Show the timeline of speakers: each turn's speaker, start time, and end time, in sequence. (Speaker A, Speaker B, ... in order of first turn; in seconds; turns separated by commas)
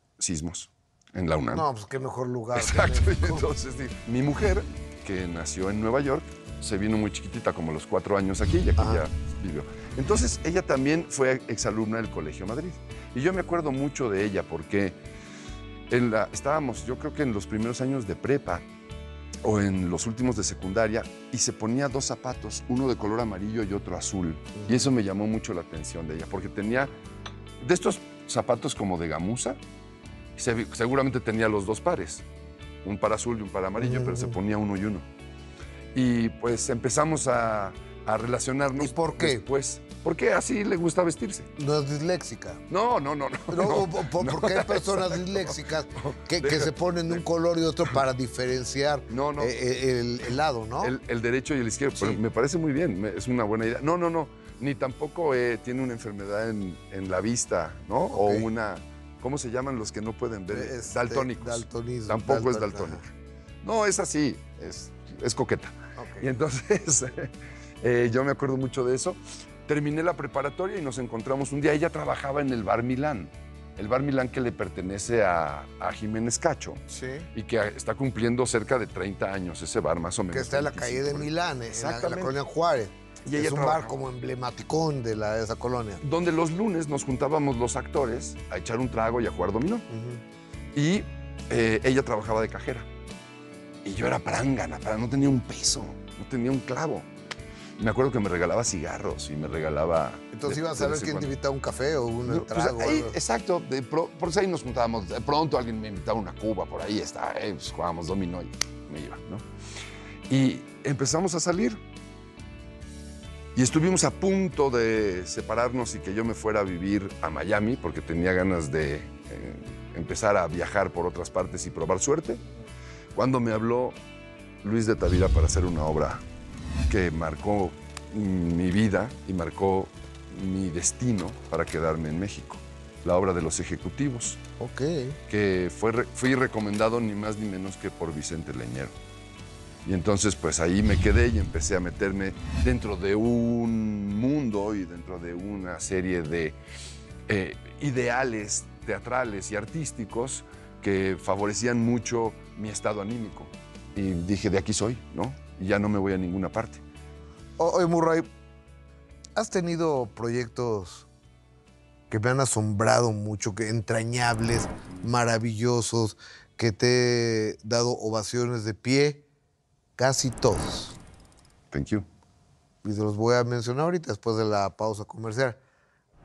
Speaker A: 0.2-1.6, Speaker B: 1.5-3.5, Speaker A: 2.5-15.0, Speaker B: 8.8-9.1, Speaker A: 15.9-18.6, Speaker A: 19.4-26.9, Speaker B: 24.6-24.9, Speaker A: 27.6-29.6, Speaker A: 30.4-32.2, Speaker A: 32.8-35.1, Speaker B: 33.8-34.4, Speaker A: 35.9-41.5, Speaker B: 38.8-39.5, Speaker B: 41.6-42.6, Speaker A: 42.7-47.2, Speaker B: 43.5-51.0, Speaker A: 49.1-49.6, Speaker A: 50.8-63.1, Speaker B: 58.1-58.5, Speaker B: 60.5-63.0, Speaker A: 63.6-76.8, Speaker B: 66.0-66.3, Speaker B: 76.9-77.3, Speaker A: 77.3-82.4, Speaker B: 80.3-86.0, Speaker A: 83.2-84.0, Speaker A: 86.0-89.9, Speaker B: 89.9-90.2, Speaker A: 90.8-92.9, Speaker A: 93.8-97.1, Speaker A: 97.8-101.3, Speaker B: 100.3-103.2, Speaker A: 102.3-109.5, Speaker A: 110.3-111.8, Speaker A: 113.5-122.4, Speaker A: 123.2-124.0, Speaker A: 124.6-126.2, Speaker A: 126.9-134.4, Speaker B: 134.6-135.2, Speaker A: 135.3-138.9, Speaker A: 139.8-146.6, Speaker A: 147.3-156.8, Speaker B: 157.6-158.3, Speaker B: 159.4-161.1, Speaker B: 162.1-169.2, Speaker B: 170.0-171.0, Speaker A: 171.7-172.1, Speaker B: 172.8-175.6